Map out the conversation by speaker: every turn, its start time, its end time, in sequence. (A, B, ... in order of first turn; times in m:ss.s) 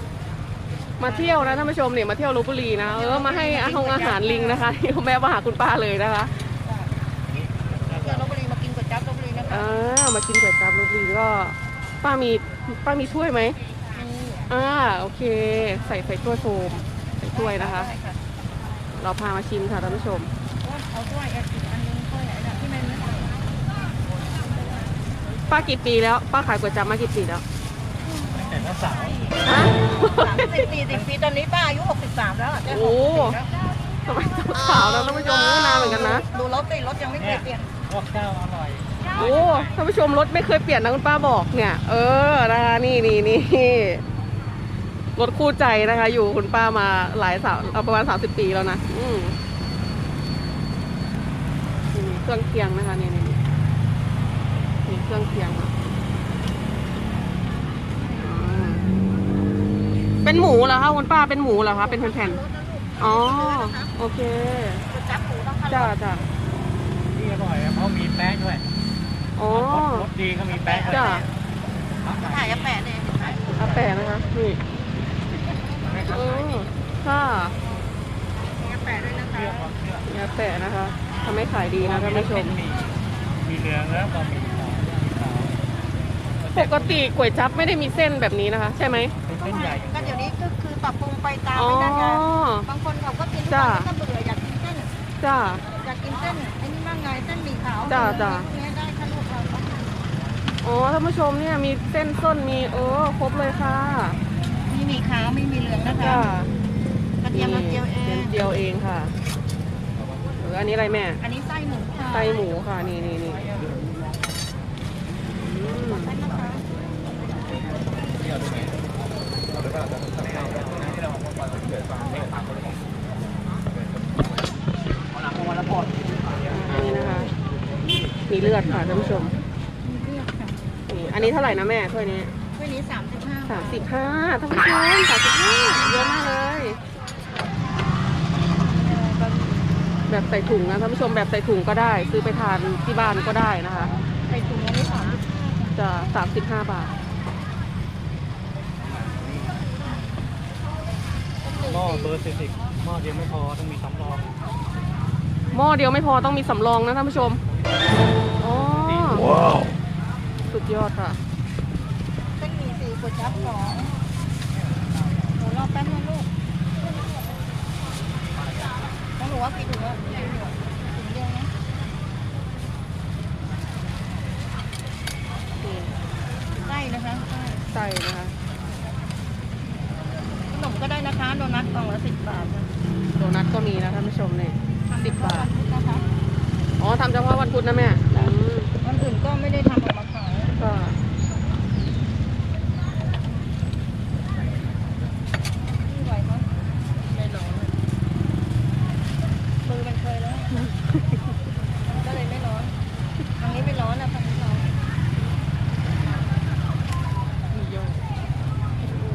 0:01.0-0:06.5 A
0:01.0-0:01.7 B
0:02.9-0:04.7 B
0:06.6-0:06.9 B
0:07.3-0:08.3 C
0:07.9-0:09.7 B
0:09.5-0:13.6 A
0:13.9-0:14.5 B
0:14.5-0:17.9 A
0:17.3-0:18.2 B
0:19.0-0:20.3 A
0:20.6-0:23.4 B
0:25.5-0:27.4 A
0:28.3-0:29.4 C
0:29.4-0:30.6 A
0:30.0-0:33.5 B
0:32.7-0:33.4 A
0:34.1-0:36.3 A
0:35.6-0:37.7 B
0:37.2-0:39.1 C
0:39.1-0:44.0 A
0:45.2-0:49.4 A
0:51.9-0:53.4 A
0:54.9-0:55.7 A
0:58.2-0:58.8 A
1:00.2-1:02.4 A
1:01.5-1:03.9 B
1:03.0-1:04.8 A
1:04.9-1:05.9 B
1:05.7-1:06.2 A
1:07.1-1:08.6 C
1:09.4-1:10.1 A
1:09.5-1:11.2 C
1:10.5-1:11.3 B
1:10.9-1:11.2 A
1:12.0-1:12.7 C
1:12.1-1:13.5 B
1:13.6-1:14.6 A
1:13.6-1:13.9 C
1:15.8-1:16.7 C
1:16.0-1:17.6 A
1:18.6-1:19.7 B
1:19.3-1:20.0 C
1:20.1-1:22.6 A
1:21.8-1:22.9 C
1:23.4-1:25.5 C
1:26.4-1:27.0 C
1:26.5-1:29.2 A
1:29.2-1:30.2 C
1:29.4-1:34.9 B
1:31.5-1:32.7 A
1:33.5-1:33.9 A
1:35.2-1:35.6 A
1:35.7-1:39.8 B
1:37.8-1:38.5 A
1:40.6-1:44.2 A
1:44.7-1:46.3 B
1:45.9-1:46.5 A
1:47.2-1:48.4 B
1:47.3-1:49.1 A
1:50.4-1:51.2 A
1:51.2-1:52.4 B
1:52.1-1:53.5 A
1:55.3-1:56.2 A
1:55.9-1:56.7 B
2:00.4-2:00.9 C
2:06.5-2:07.3 A
2:08.3-2:09.3 A
2:09.8-2:10.6 B
2:10.9-2:12.3 A
2:12.6-2:13.8 B
2:13.5-2:16.8 A
2:18.6-2:19.7 B
2:20.1-2:23.9 A
2:24.3-2:25.2 B
2:25.8-2:26.9 A
2:28.8-2:29.6 C
2:31.4-2:32.2 B
2:31.6-2:34.4 C
2:35.5-2:37.4 A
2:38.4-2:39.5 A
2:40.5-2:41.2 A
2:42.4-2:43.9 B
2:45.4-2:46.3 B
2:49.2-2:51.5 B
2:55.6-2:55.9 A
2:56.6-2:57.6 B
2:57.7-2:58.3 A
3:00.5-3:02.7 B
3:03.1-3:05.5 A
3:04.9-3:06.1 B
3:06.8-3:08.7 A
3:08.8-3:10.5 B
3:10.6-3:11.0 A
3:15.7-3:16.5 B
3:17.1-3:17.8 A
3:19.6-3:20.7 B
3:21.9-3:22.7 B
3:23.4-3:24.8 B
3:27.5-3:28.0 A